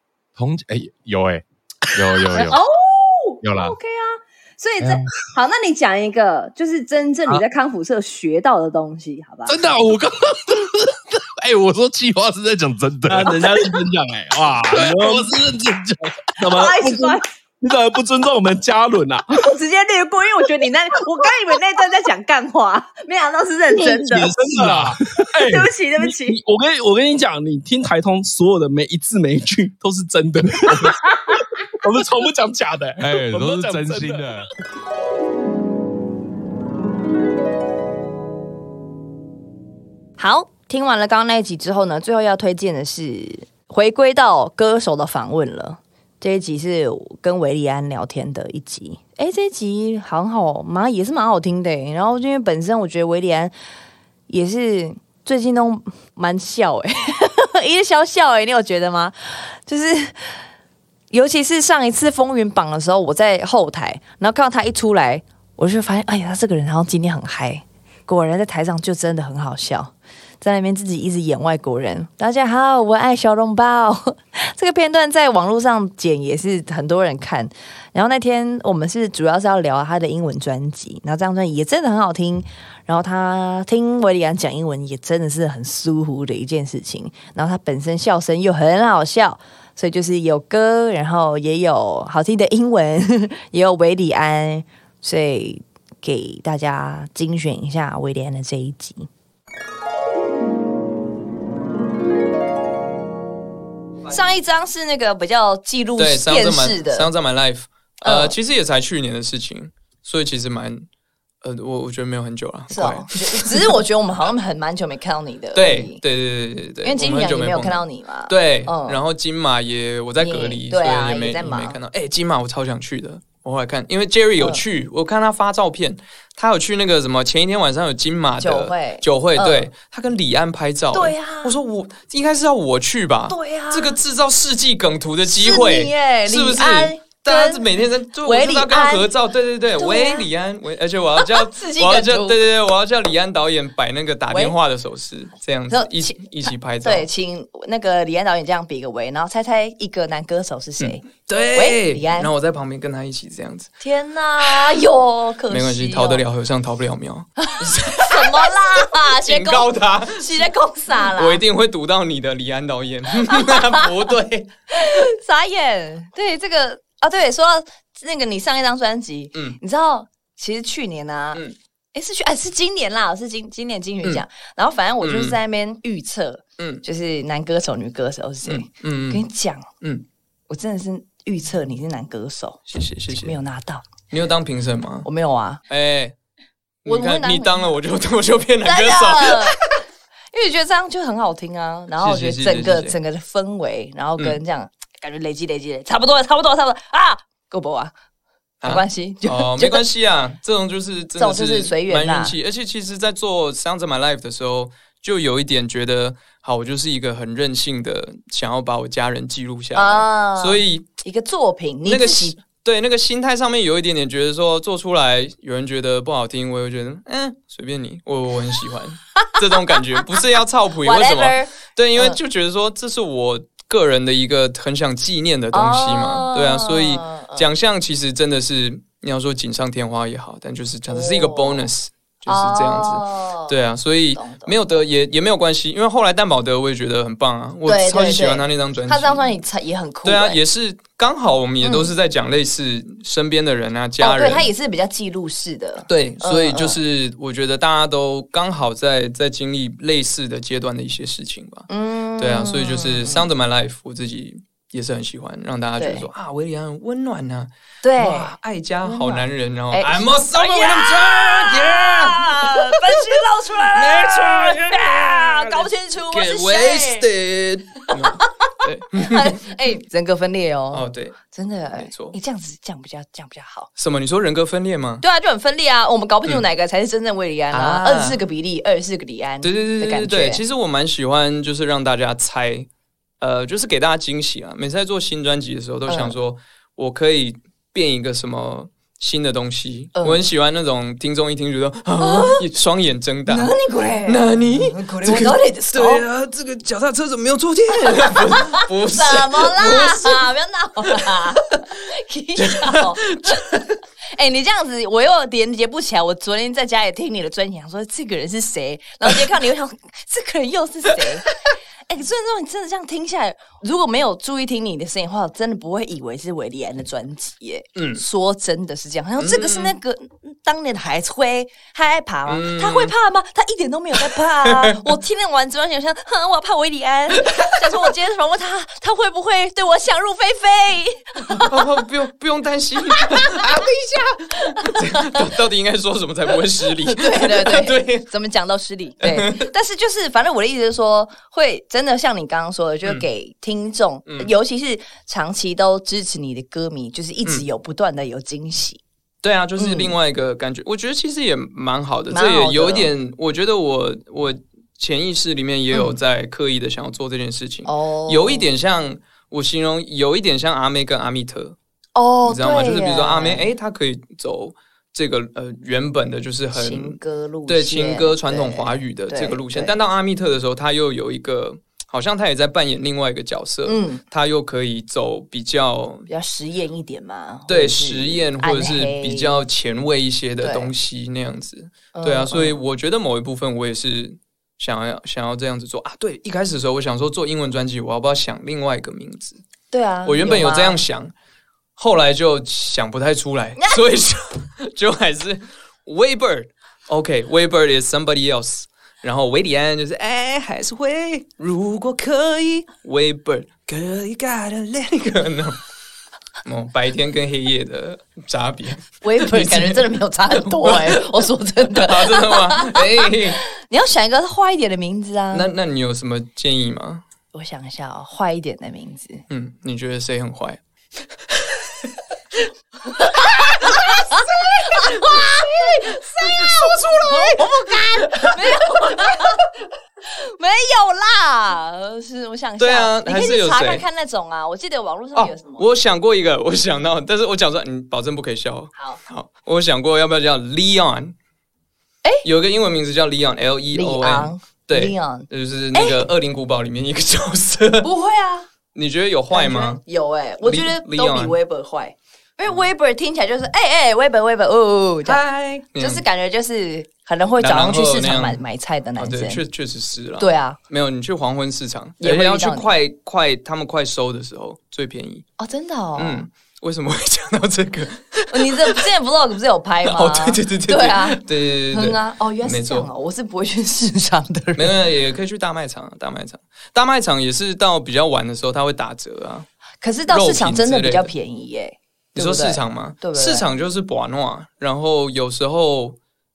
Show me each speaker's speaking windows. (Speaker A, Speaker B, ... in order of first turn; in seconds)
Speaker A: 0.4-2.6, 3.4-3.8, 4.8-5.1, 9.5-13.7, 14.7-16.1, 24.4-25.0, 33.0-34.5
Speaker B: 2.2-2.5, 13.1-15.3, 16.4-19.4, 23.7-34.4
Speaker C: 2.4-9.6, 16.5-17.2, 19.4-24.3, 25.4-26.4
Speaker D: 40.2-53.5, 54.3-60.3, 61.1-99.1, 104.1-107.1, 108.0-108.4, 112.7-116.0, 116.8-119.0, 120.2-121.8, 124.4-124.6, 128.4-129.7, 130.9-131.6, 133.3-134.0, 135.2-139.1, 139.8-140.3, 141.2-142.4, 144.3-144.6, 145.7-152.3, 153.8-156.2, 157.4-161.4, 163.3-163.8, 164.8-171.4, 171.9-179.7, 180.5-184.0, 185.0-185.6, 186.8-187.7, 188.6-189.6, 190.3-197.9, 198.6-199.9, 201.2-202.3, 209.7-212.4, 220.8-222.2, 225.5-227.5, 230.9-231.7, 232.3-233.6, 234.2-234.8, 237.6-240.4, 241.6-241.9, 244.0-246.8, 251.7-253.3, 255.8-256.1, 257.8-258.3, 258.8-267.1, 267.9-268.3, 269.0-273.7, 275.0-280.4, 285.9-286.1, 290.0-290.2, 292.0-292.4, 293.3-296.0, 297.8-331.7, 332.9-333.4, 334.4-335.3, 336.7-348.8, 349.6-349.9, 352.1-352.9, 355.7-356.0, 357.6-358.5, 361.9-363.5, 366.5-369.8, 373.7-374.0, 376.1-379.5, 380.4-380.7, 381.9-382.6, 389.7-390.8, 409.0-415.5, 417.3-419.2, 423.0-435.6, 443.7-446.0, 447.8-448.5, 449.3-459.4, 460.2-460.6, 462.0-462.8, 465.4-466.2, 468.3-471.2, 471.7-474.8, 479.8-483.5
Speaker E: 106.0-110.8, 111.4-113.7, 115.5-147.1, 150.8-153.7, 154.4-154.8, 155.5-160.5, 161.0-164.5, 169.3-169.6, 175.0-175.4, 176.6-176.8, 178.4-179.2, 182.7-183.4, 184.1-185.1, 185.7-186.1, 186.8-189.8, 192.0-193.0, 198.6-210.9, 211.8-239.2, 240.0-244.5, 245.9-269.4, 270.7-271.2, 271.7-272.2, 273.8-275.0, 277.5-278.2, 279.4-282.7, 283.2-293.5, 294.1-300.3, 300.9-301.6, 302.4-303.6, 317.8-318.0, 319.2-319.7, 322.3-322.9, 324.0-324.9, 327.1-327.6, 331.3-338.1, 339.0-339.5, 344.1-344.3, 349.2-361.6, 362.2-376.1, 377.5-389.4, 390.0-391.1, 391.8-405.6, 406.4-411.1, 411.7-413.4, 415.3-417.0, 419.3-420.6, 423.6-423.9, 424.9-425.5, 426.2-428.6, 432.6-433.9, 435.1-441.1, 442.2-447.9, 448.7-449.8, 450.4-451.4, 455.0-456.0, 457.4-458.4, 459.0-465.2, 465.9-468.8, 469.8-472.9, 474.6-479.5, 480.1-481.1, 482.1-486.0